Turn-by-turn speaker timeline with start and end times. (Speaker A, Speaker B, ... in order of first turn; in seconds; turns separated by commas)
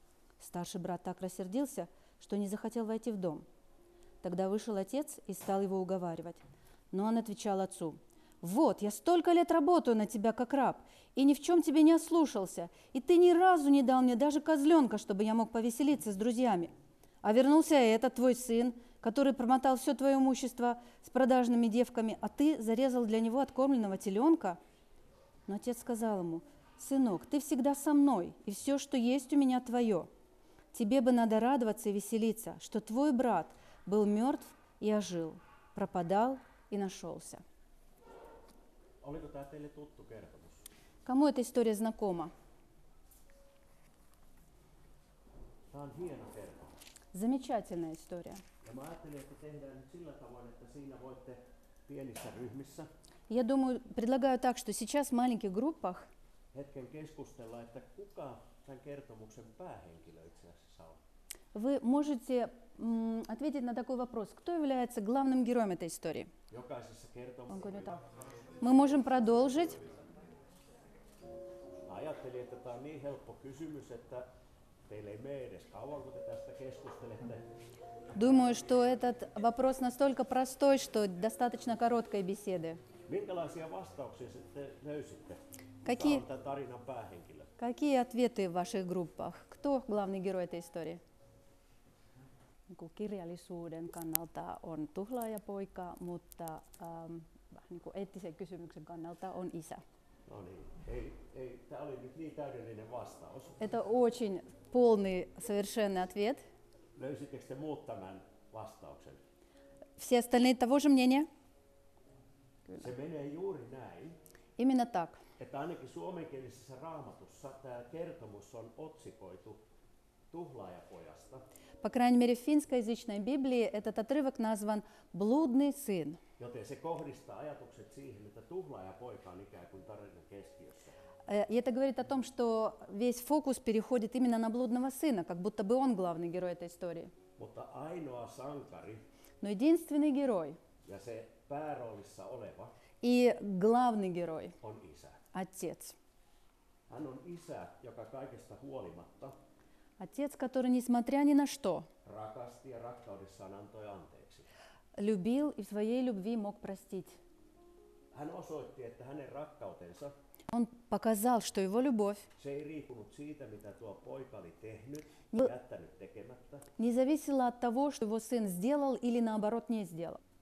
Speaker A: 0.4-3.4, Speaker A: 4.2-16.7, Speaker A: 17.2-24.6, Speaker A: 25.5-30.1, Speaker A: 30.7-37.4, Speaker B: 39.0-40.6, Speaker A: 41.0-42.3, Speaker B: 45.7-46.8, Speaker A: 47.1-48.4, Speaker B: 48.6-52.9, Speaker A: 53.3-56.1, Speaker B: 56.5-61.0, Speaker A: 61.5-66.3, Speaker B: 66.5-68.0, Speaker A: 67.5-67.9, Speaker A: 68.6-69.8, Speaker B: 71.8-74.3, Speaker B: 74.9-77.5, Speaker A: 78.1-82.8, Speaker B: 83.0-87.5, Speaker A: 85.8-86.2, Speaker A: 87.6-91.0, Speaker A: 92.7-99.8, Speaker B: 100.2-103.6, Speaker A: 103.6-106.4, Speaker B: 106.9-109.2, Speaker A: 110.0-111.3, Speaker B: 112.8-114.2, Speaker A: 114.6-115.2, Speaker B: 115.4-119.6, Speaker B: 120.3-121.4, Speaker A: 121.8-126.2, Speaker B: 126.4-131.0, Speaker A: 131.3-137.1, Speaker B: 137.4-139.0, Speaker A: 139.4-140.6, Speaker B: 140.8-142.7, Speaker A: 143.0-144.6, Speaker B: 144.6-145.2, Speaker A: 145.3-145.9, Speaker B: 146.9-149.3, Speaker A: 150.0-151.9, Speaker B: 152.0-154.5, Speaker A: 155.0-157.2, Speaker B: 158.1-160.1, Speaker A: 160.5-162.3, Speaker B: 162.4-166.7, Speaker A: 166.8-170.2